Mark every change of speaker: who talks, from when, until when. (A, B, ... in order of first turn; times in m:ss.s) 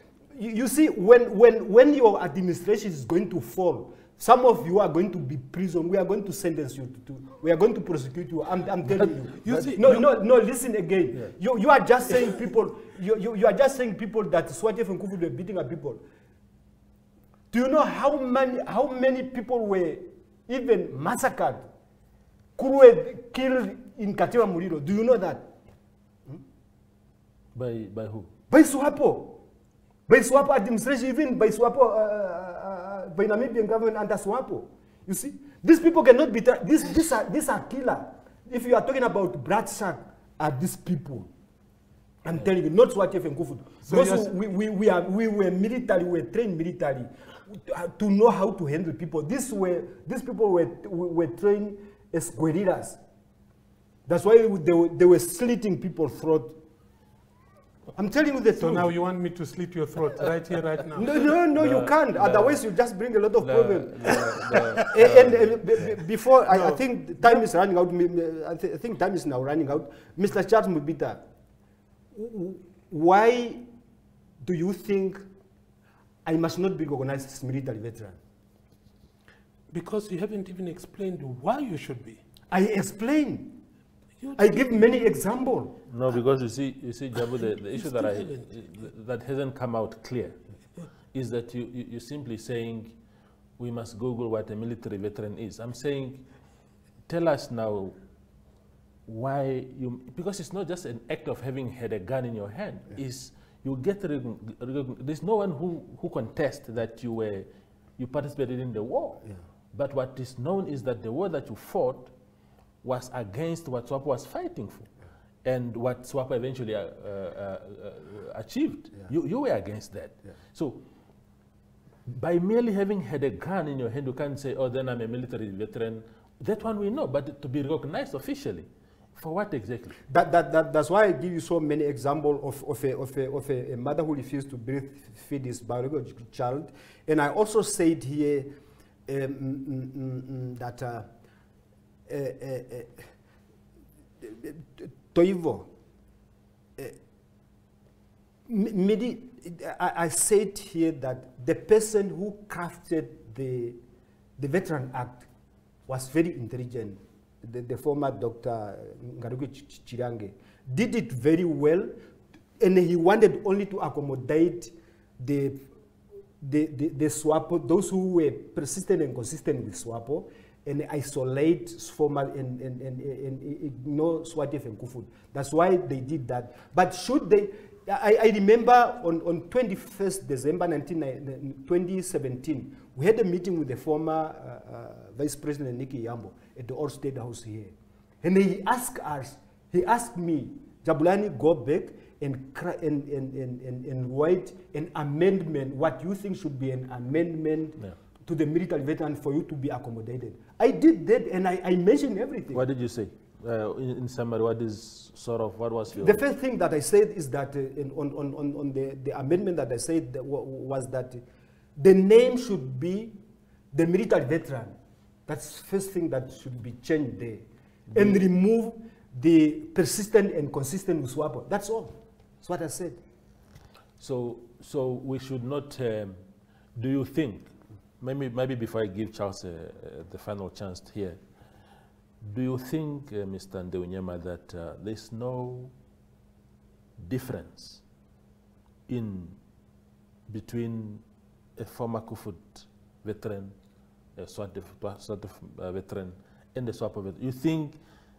0:00.3-0:16.0 A
0:08.9-0:10.1 B
0:17.5-0:21.7 A
0:22.6-0:25.5 A
0:27.6-0:28.3 C
0:28.5-0:29.4 A
0:30.1-0:41.3 A
0:42.2-0:53.0 A
0:43.9-0:44.3 B
0:54.1-0:56.6 A
0:58.0-0:59.0 A
0:58.6-1:01.2 B
1:01.0-1:11.2 A
1:01.6-1:02.6 C
1:03.4-1:06.0 C
1:06.5-1:07.4 B
1:12.1-1:13.7 A
1:14.4-1:15.2 A
1:16.2-1:18.2 A
1:19.7-1:22.2 B
1:22.5-1:23.6 A
1:24.2-1:24.7 B
1:24.4-1:25.8 A
1:25.9-1:30.4 C
1:27.4-1:28.5 B
1:31.1-1:33.0 C
1:33.6-1:36.3 C
1:37.1-1:38.0 C
1:39.1-1:47.5 C
1:48.0-1:52.1 C
1:52.8-1:54.9 C
1:55.4-2:00.8 C
2:02.1-2:10.0 C
2:10.1-2:18.5 A
2:19.1-2:21.1 A
2:22.1-2:23.1 A
2:24.2-2:25.7 A
2:28.5-2:33.8 A
2:34.4-2:35.3 A
2:35.9-2:41.9 A
2:42.6-2:45.6 A
2:46.4-3:22.6 A
3:22.5-3:26.2 C
3:26.0-3:31.2 A
3:31.8-3:33.2 A
3:33.7-3:34.8 A
3:35.3-3:43.0 A
3:37.9-3:38.3 C
3:44.0-3:46.2 C
3:46.8-3:51.2 C
3:52.2-3:55.7 C
3:57.0-3:57.8 C
3:58.9-3:59.4 C
4:00.3-4:01.0 C
4:01.6-4:03.6 C
4:04.2-4:07.8 C